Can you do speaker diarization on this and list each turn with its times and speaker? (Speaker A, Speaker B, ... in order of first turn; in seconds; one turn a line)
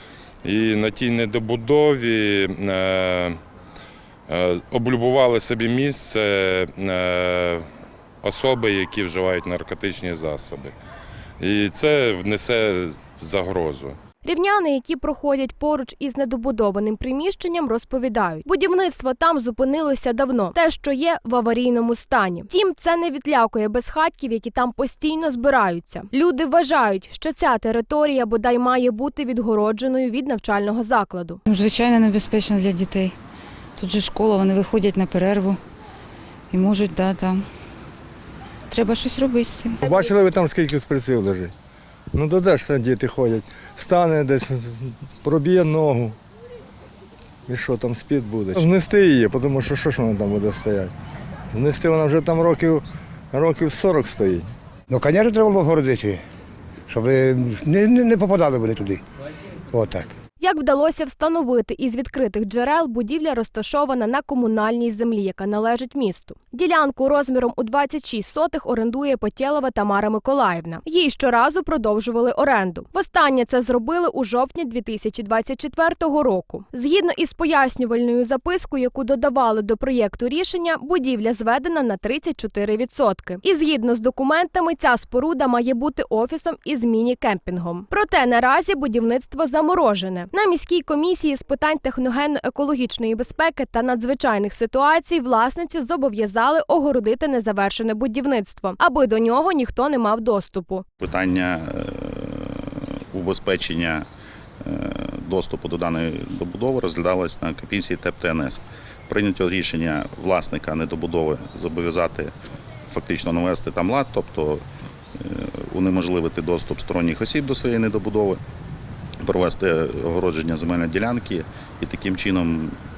Speaker A: 0.4-3.4
Speaker A: 4.3-7.7
Speaker A: 8.2-10.8
Speaker A: 11.4-14.0
Speaker B: 14.2-31.4
Speaker C: 31.5-33.1
Speaker C: 33.8-35.6
Speaker C: 36.5-37.4
Speaker C: 39.0-39.7
Speaker D: 39.8-41.5
Speaker D: 42.1-46.2
Speaker D: 47.5-50.9
Speaker D: 51.5-54.5
Speaker E: 54.9-56.2
Speaker E: 56.9-59.0
Speaker E: 59.7-60.1
Speaker B: 60.4-100.8
Speaker F: 101.0-104.1
Speaker F: 104.6-112.3
Speaker F: 112.9-114.6
Speaker F: 115.2-118.4
Speaker F: 119.2-122.8